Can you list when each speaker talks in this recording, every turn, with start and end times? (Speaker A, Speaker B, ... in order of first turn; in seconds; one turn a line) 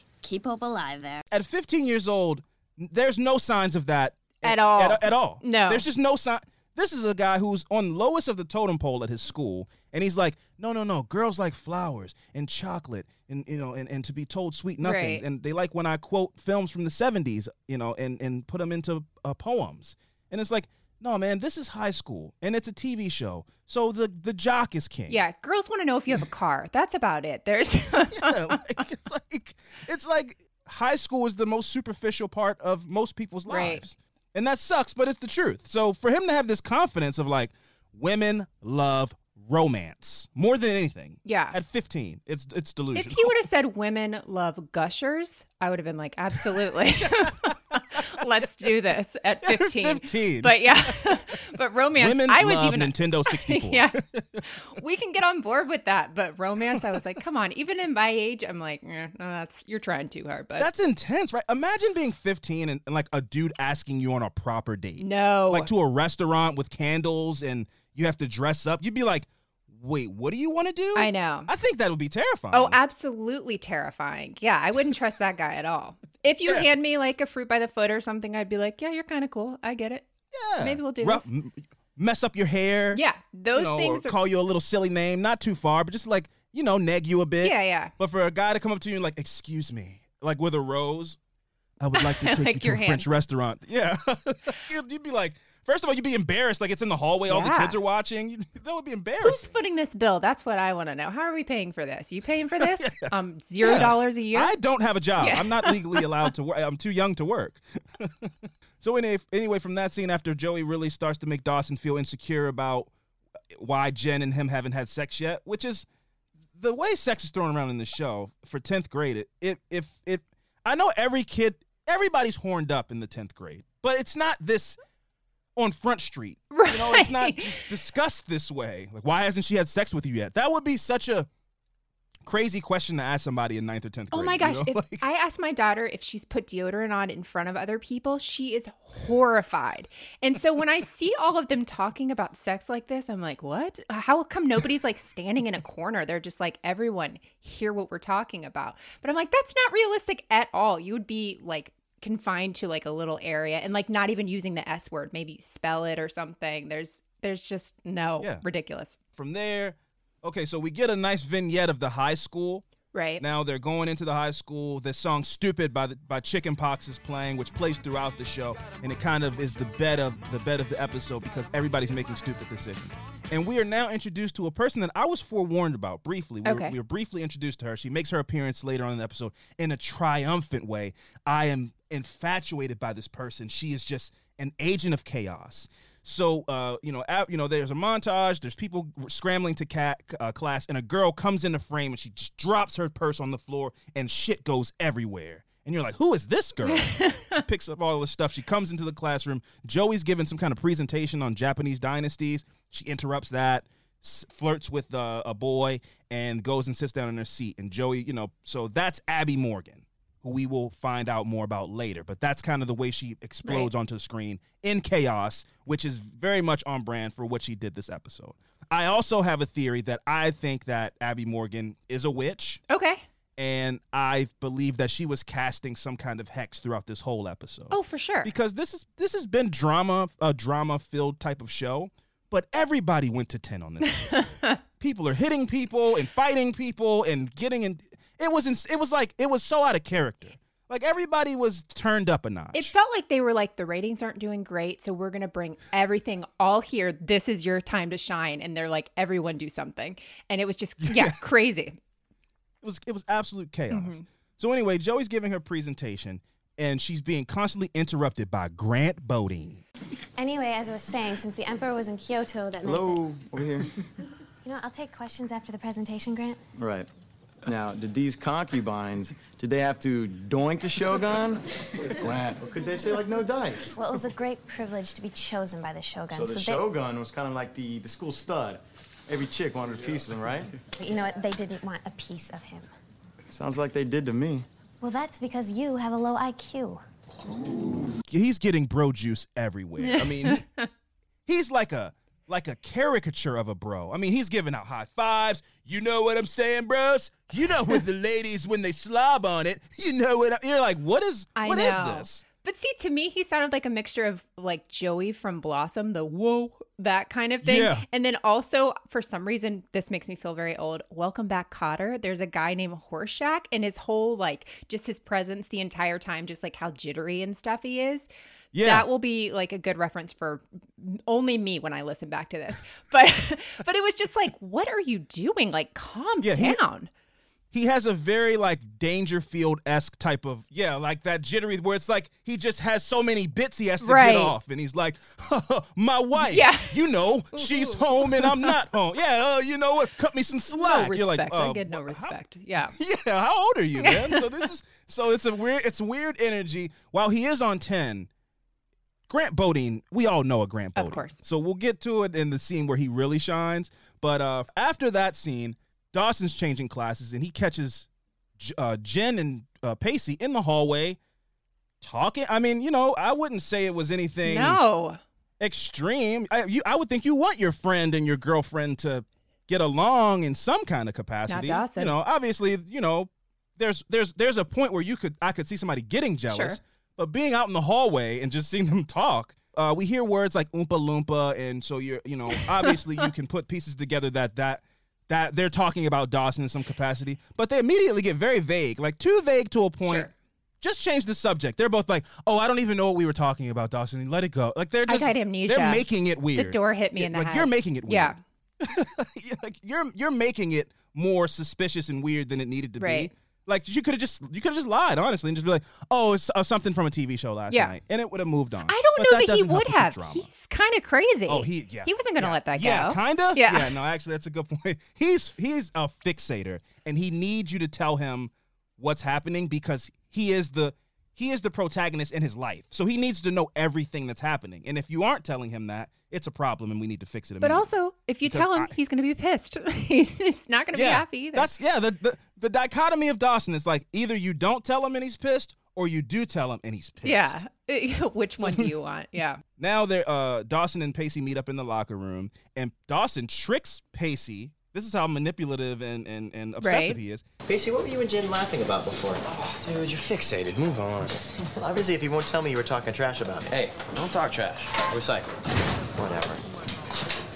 Speaker A: 0.2-1.2
Speaker B: 1.3-25.2
Speaker C: 4.4-5.9
Speaker C: 14.8-15.2
Speaker C: 25.1-28.7
Speaker B: 28.1-43.4
Speaker C: 33.5-33.9
Speaker C: 41.2-41.6
Speaker C: 43.0-60.7
Speaker B: 46.5-48.0
Speaker B: 49.4-51.4
Speaker B: 52.0-54.4
Speaker B: 60.6-72.8
Speaker C: 65.0-65.7
Speaker C: 71.0-71.5
Speaker C: 72.5-80.0
Speaker B: 80.3-91.2
Speaker C: 80.6-81.3
Speaker C: 82.9-84.2
Speaker C: 87.4-87.9
Speaker B: 91.8-99.5
Speaker C: 92.0-93.1
Speaker C: 97.3-97.8
Speaker C: 99.2-104.5
Speaker B: 102.6-112.9
Speaker C: 105.2-106.2
Speaker B: 113.5-115.9
Speaker B: 116.5-124.8
Speaker B: 125.6-131.3
Speaker C: 126.5-127.7
Speaker B: 132.2-135.1
Speaker C: 134.1-159.0
Speaker B: 159.2-162.7
Speaker C: 162.9-163.2
Speaker B: 163.2-222.6
Speaker C: 176.4-176.8
Speaker C: 196.7-197.4
Speaker C: 213.4-213.7
Speaker C: 222.7-223.0
Speaker B: 223.4-242.7
Speaker C: 227.7-228.3
Speaker C: 234.1-234.6
Speaker C: 242.5-251.8
Speaker B: 250.8-251.2
Speaker B: 252.6-259.6
Speaker C: 253.7-254.0
Speaker A: 260.2-263.0
Speaker D: 262.6-263.7
Speaker A: 264.4-266.4
Speaker D: 266.6-266.9
Speaker D: 267.4-273.7
Speaker E: 272.4-273.8
Speaker A: 273.8-276.6
Speaker D: 276.1-280.5
Speaker A: 280.8-282.7
Speaker D: 283.3-284.5
Speaker A: 284.8-286.8
Speaker B: 288.1-290.4
Speaker C: 289.8-290.7
Speaker B: 291.3-302.2
Speaker C: 301.4-318.1
Speaker B: 307.4-307.9
Speaker B: 318.5-318.9
Speaker C: 318.6-326.9
Speaker B: 326.2-326.6
Speaker B: 327.5-342.2
Speaker C: 333.8-334.4
Speaker C: 336.2-336.8
Speaker C: 337.4-338.5
Speaker C: 340.5-342.8
Speaker B: 342.8-348.1
Speaker C: 343.8-344.3
Speaker B: 349.1-361.0
Speaker C: 350.8-351.2
Speaker B: 361.8-364.6
Speaker C: 364.2-365.0
Speaker B: 365.4-390.1
Speaker C: 371.3-371.9
Speaker C: 376.3-376.6
Speaker C: 382.3-382.8
Speaker C: 389.8-390.1
Speaker B: 390.6-410.3
Speaker C: 394.9-398.2
Speaker C: 402.8-403.1
Speaker C: 407.5-407.8
Speaker C: 408.7-413.7
Speaker B: 411.3-427.7
Speaker C: 427.4-431.5
Speaker B: 428.2-428.7
Speaker B: 430.7-437.4
Speaker C: 437.0-439.4
Speaker B: 438.4-438.7
Speaker B: 439.6-447.2
Speaker C: 446.6-447.0
Speaker E: 447.5-449.2
Speaker F: 449.3-451.2
Speaker E: 451.5-453.5
Speaker F: 453.5-455.3
Speaker E: 456.0-456.4